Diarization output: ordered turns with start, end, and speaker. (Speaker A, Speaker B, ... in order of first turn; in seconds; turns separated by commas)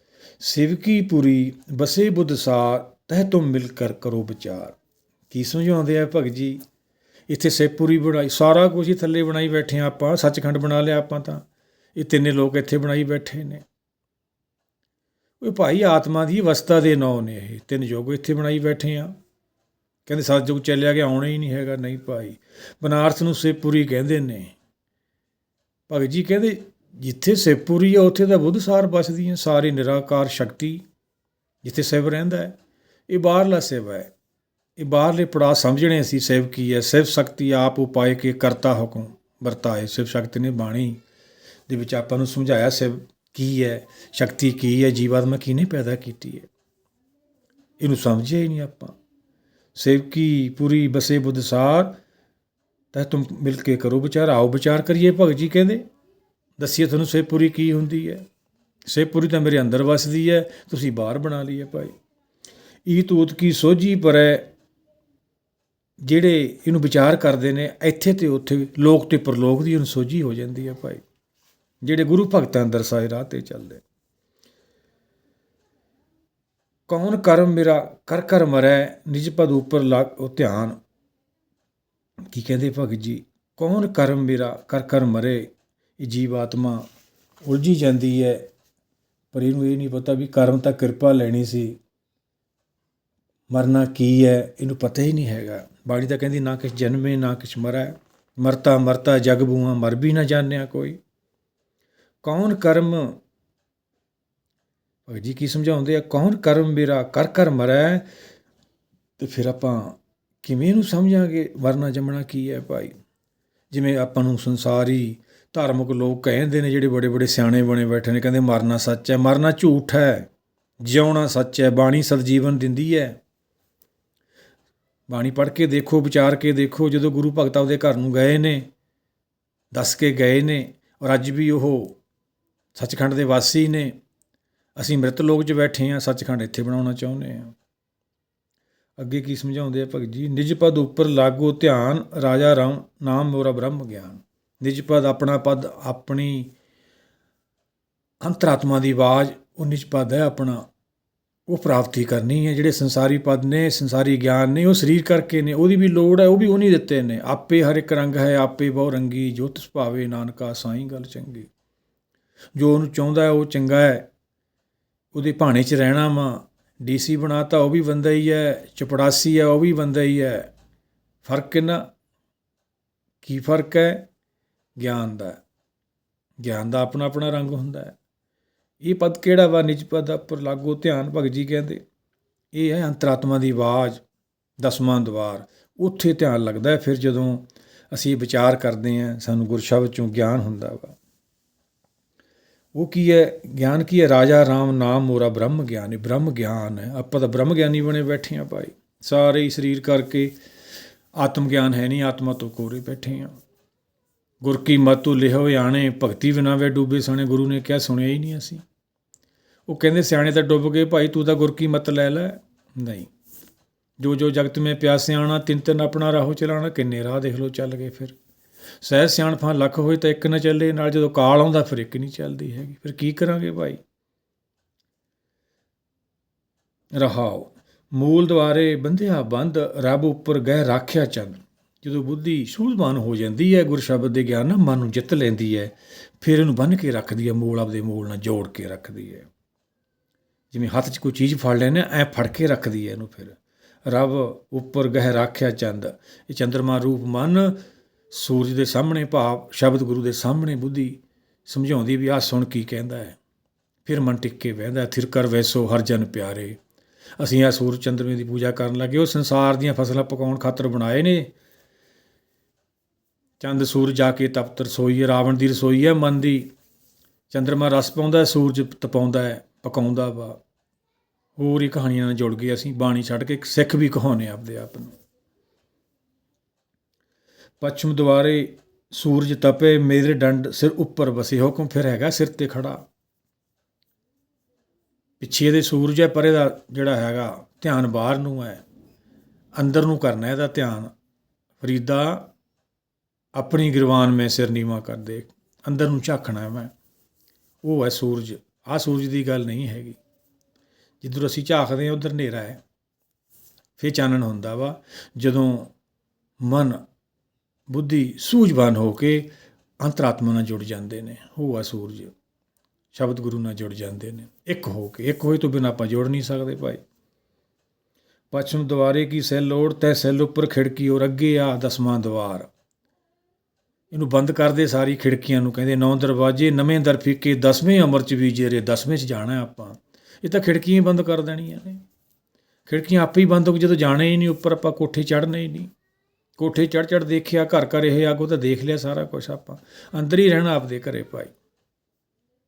Speaker A: 0.4-4.8, Speaker A: 5.3-6.6, Speaker A: 7.3-11.4, Speaker A: 12.0-13.7, Speaker A: 15.4-19.1, Speaker A: 20.1-24.6, Speaker A: 25.9-30.9, Speaker A: 31.6-32.6, Speaker A: 33.1-34.1, Speaker A: 34.8-41.0, Speaker A: 41.7-46.5, Speaker A: 47.8-49.0, Speaker A: 49.8-52.0, Speaker A: 52.9-55.9, Speaker A: 56.6-58.2, Speaker A: 58.9-62.0, Speaker A: 62.9-64.5, Speaker A: 66.0-71.0, Speaker A: 71.8-73.8, Speaker A: 76.9-80.8, Speaker A: 82.3-86.9, Speaker A: 87.5-88.5, Speaker A: 89.3-91.8, Speaker A: 93.5-101.0, Speaker A: 102.2-103.2, Speaker A: 105.1-108.1, Speaker A: 109.2-113.0, Speaker A: 113.7-120.3, Speaker A: 120.8-123.2, Speaker A: 125.1-128.7, Speaker A: 129.7-132.0, Speaker A: 132.8-133.9, Speaker A: 134.8-137.6, Speaker A: 139.0-146.5, Speaker A: 148.2-150.7, Speaker A: 151.5-161.5, Speaker A: 162.6-164.1, Speaker A: 165.1-170.5, Speaker A: 171.2-171.9, Speaker A: 173.2-174.1, Speaker A: 174.8-175.4, Speaker A: 176.4-178.0, Speaker A: 178.8-181.8, Speaker A: 182.5-184.0, Speaker A: 184.6-191.0, Speaker A: 192.7-200.3, Speaker A: 201.2-203.3, Speaker A: 204.4-208.6, Speaker A: 209.7-213.1, Speaker A: 214.0-218.2, Speaker A: 218.8-223.8, Speaker A: 226.9-239.3, Speaker A: 240.5-253.2, Speaker A: 253.9-256.6, Speaker A: 257.2-261.3, Speaker A: 263.4-266.5, Speaker A: 267.3-270.4, Speaker A: 271.4-274.9, Speaker A: 277.6-282.8, Speaker A: 285.2-288.6, Speaker A: 289.6-290.9, Speaker A: 291.6-292.3, Speaker A: 293.4-296.7, Speaker A: 297.6-300.0, Speaker A: 301.0-302.6, Speaker A: 303.8-305.7, Speaker A: 306.4-306.8, Speaker A: 307.7-312.1, Speaker A: 312.9-316.8, Speaker A: 318.3-322.5, Speaker A: 323.9-331.8, Speaker A: 332.7-335.7, Speaker A: 336.4-341.3